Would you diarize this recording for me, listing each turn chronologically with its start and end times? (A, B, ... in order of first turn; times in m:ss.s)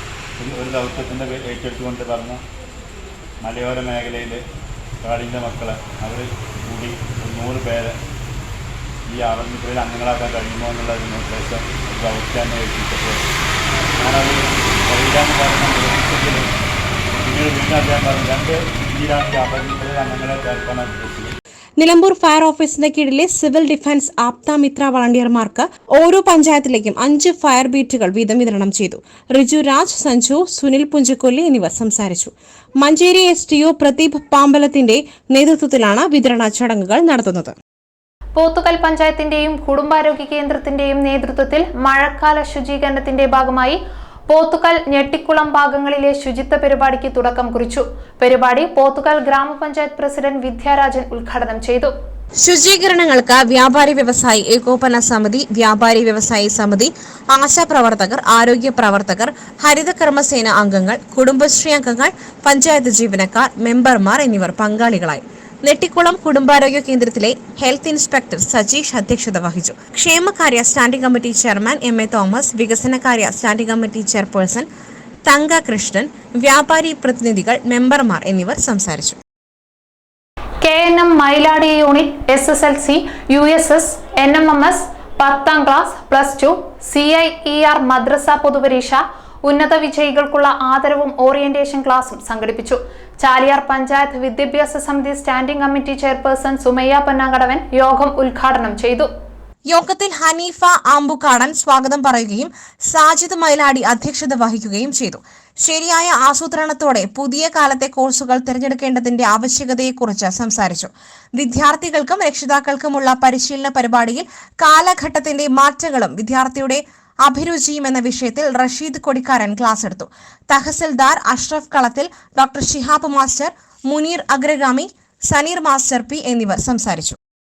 0:00.4-0:02.4 A
0:03.4-0:04.4 A
0:05.0-0:07.9 A
0:09.1-0:13.2 A
0:14.0-0:16.4 A
0:17.2-0:21.3 A
0:21.8-0:37.6 B
0:38.4-0:51.9 C
0:52.4-1:14.7 B
1:15.3-1:19.2 B
1:20.6-1:39.1 C
1:39.7-2:07.2 B